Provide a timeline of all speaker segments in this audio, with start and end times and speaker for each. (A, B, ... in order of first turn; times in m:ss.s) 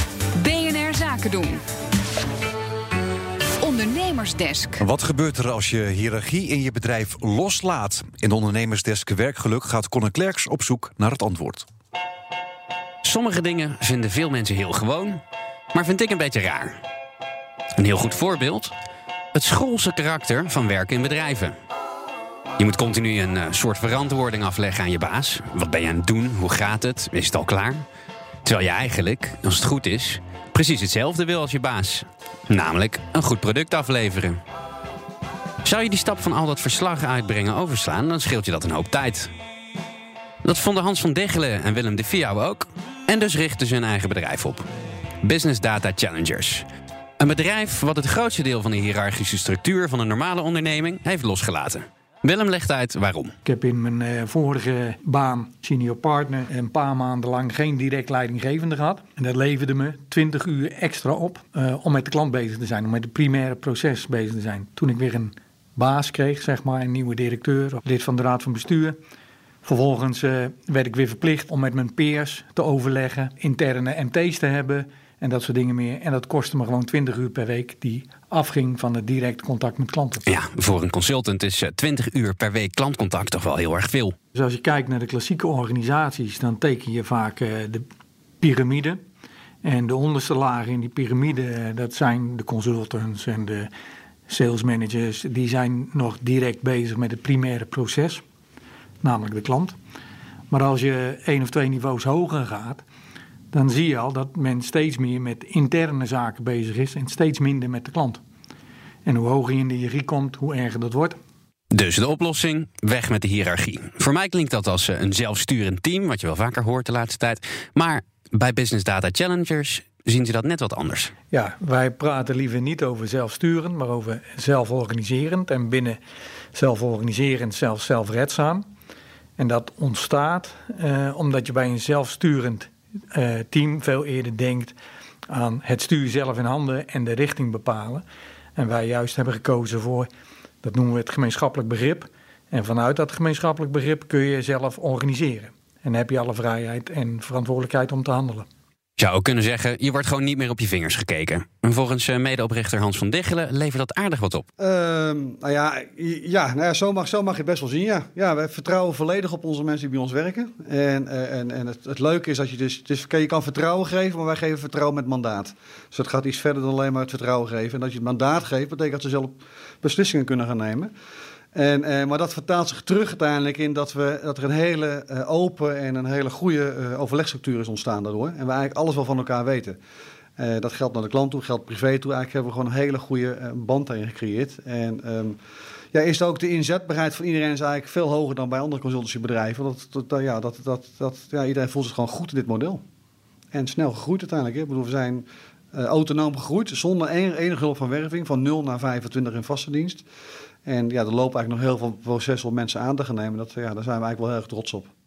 0:00.4-0:01.6 A
0:03.6-0:04.8 A
0:04.8-0:11.6 B
0:13.0-0:15.2 C
0:15.7-0:16.8 C
0:17.8-0:18.7 C
0:19.3-0:21.6 C
0:22.6-0:27.8 C
0:28.4-0:34.4 C
0:35.6-0:39.3 C
0:40.4-0:44.7 C
0:45.2-0:46.6 C
0:47.2-0:53.3 C
0:53.4-1:09.0 D
1:09.6-1:20.2 D
1:20.2-1:24.1 C
1:24.3-1:27.8 D
1:28.4-1:29.0 D
1:29.6-1:33.7 D
1:34.3-1:38.2 D
1:39.0-1:39.8 D
1:40.5-1:42.8 D
1:43.5-1:48.2 D
1:49.0-1:51.2 D
1:51.7-2:01.1 C
2:01.3-2:06.0 D
2:06.5-2:08.7 D
2:09.4-2:14.8 D
2:15.3-2:18.0 D
2:18.6-2:20.1 D
2:20.6-2:28.5 D
2:29.0-2:34.5 C
2:34.6-2:50.9 E
2:51.5-2:59.8 E
3:00.4-3:05.4 E
3:05.9-3:12.8 E
3:13.5-3:20.0 E
3:20.6-3:24.9 E